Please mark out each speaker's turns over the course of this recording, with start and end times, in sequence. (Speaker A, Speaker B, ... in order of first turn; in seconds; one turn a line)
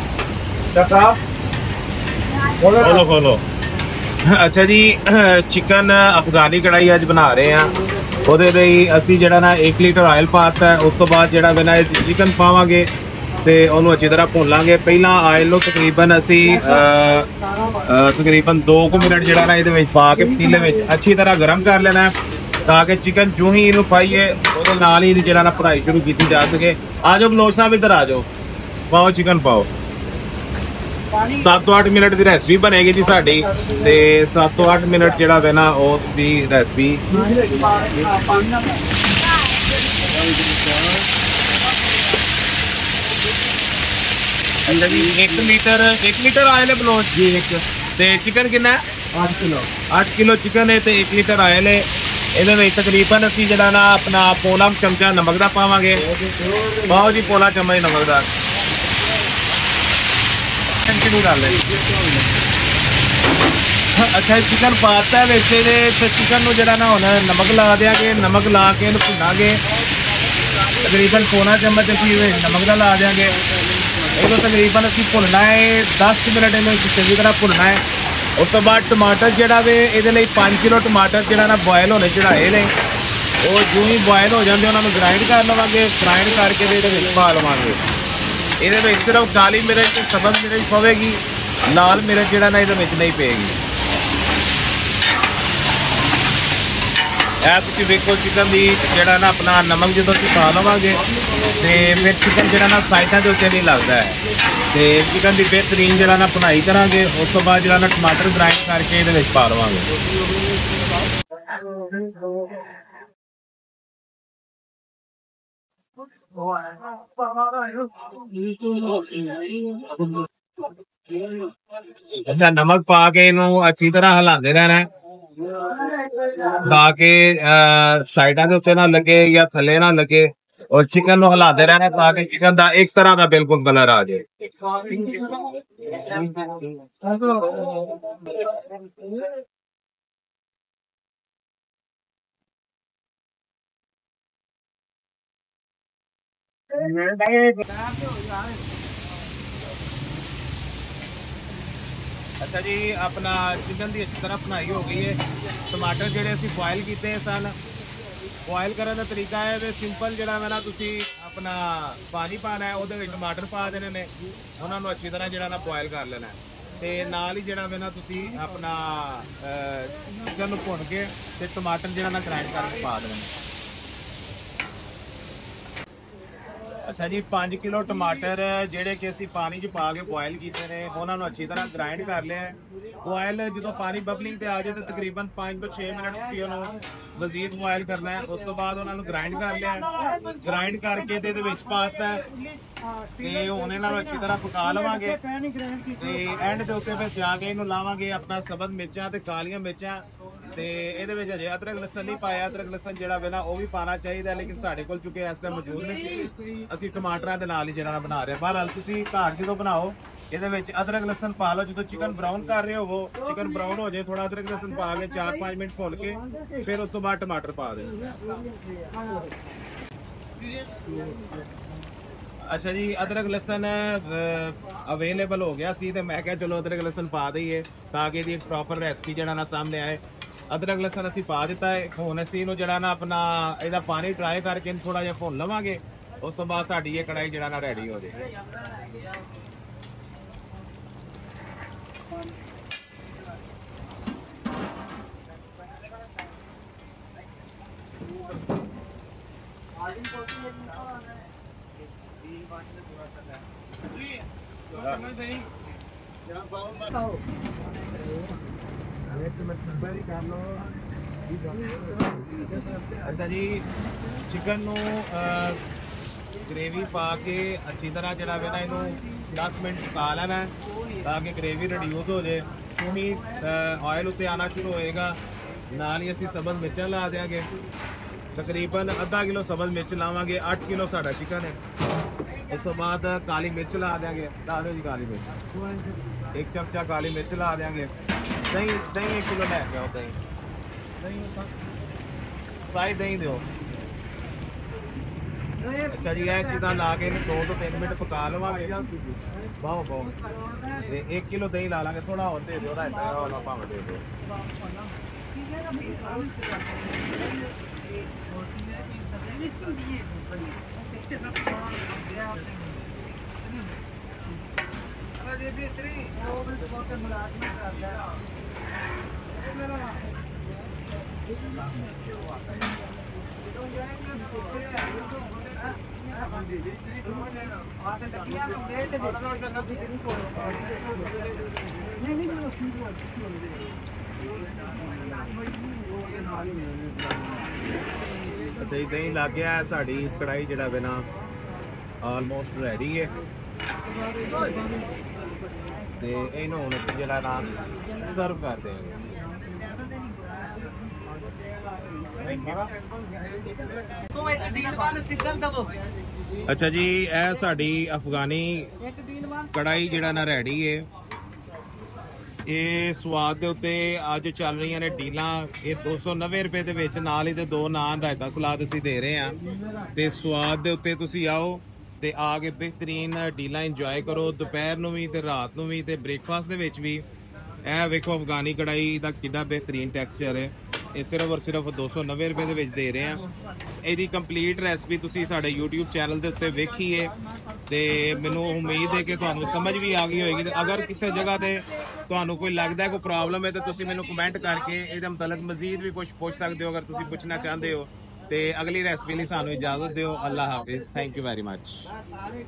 Speaker A: 0.8-1.1
Speaker A: 2.7-3.4
Speaker A: 4.3-7.7
Speaker A: 8.2-12.9
Speaker A: 13.4-17.3
Speaker A: 17.9-22.1
Speaker A: 22.6-28.2
Speaker A: 28.9-29.7
Speaker A: 31.3-37.0
Speaker B: 37.2-38.7
Speaker B: 40.3-41.0
Speaker A: 44.6-51.8
Speaker A: 52.4-56.0
Speaker A: 56.8-58.3
Speaker A: 60.8-61.6
Speaker A: 64.0-69.6
Speaker A: 70.8-73.4
Speaker A: 74.1-77.8
Speaker A: 78.4-82.7
Speaker A: 83.4-87.8
Speaker A: 88.6-91.2
Speaker A: 91.7-93.6
Speaker A: 97.4-101.0
Speaker A: 101.5-104.2
Speaker A: 104.7-109.8
Speaker A: 117.6-120.0
Speaker A: 122.0-124.9
Speaker A: 125.8-138.1
Speaker B: 147.2-148.4
Speaker A: 152.4-155.2
Speaker A: 155.7-157.5
Speaker A: 158.5-164.1
Speaker A: 164.6-173.3
Speaker A: 176.8-192.2
Speaker A: 193.2-195.2
Speaker B: 195.4-195.8
Speaker A: 195.9-218.0
Speaker A: 222.5-238.2
Speaker B: 252.8-253.1
Speaker A: 254.8-255.1
Speaker A: 262.9-263.6
Speaker A: 264.3-265.6
Speaker A: 266.4-270.5
Speaker A: 271.0-275.2
Speaker A: 275.7-277.4
Speaker A: 278.3-281.6
Speaker A: 282.5-285.2
Speaker A: 286.3-287.9
Speaker A: 288.5-290.2
Speaker A: 292.7-293.4
Speaker A: 295.9-298.8
Speaker A: 299.6-300.1
Speaker A: 300.8-304.0
Speaker B: 305.6-306.3
Speaker B: 308.6-310.2
Speaker B: 312.2-312.6
Speaker B: 315.6-317.6
Speaker B: 323.8-325.7
Speaker B: 327.3-329.8
Speaker B: 332.1-332.8
Speaker A: 338.6-341.1
Speaker A: 342.0-343.1
Speaker A: 346.0-349.0
Speaker A: 352.2-352.7
Speaker B: 354.1-355.7
Speaker A: 356.5-358.7
Speaker B: 358.9-359.3
Speaker A: 359.5-360.9
Speaker A: 362.5-369.4
Speaker A: 369.9-377.0
Speaker A: 377.6-383.2
Speaker A: 383.8-387.1
Speaker A: 387.7-401.9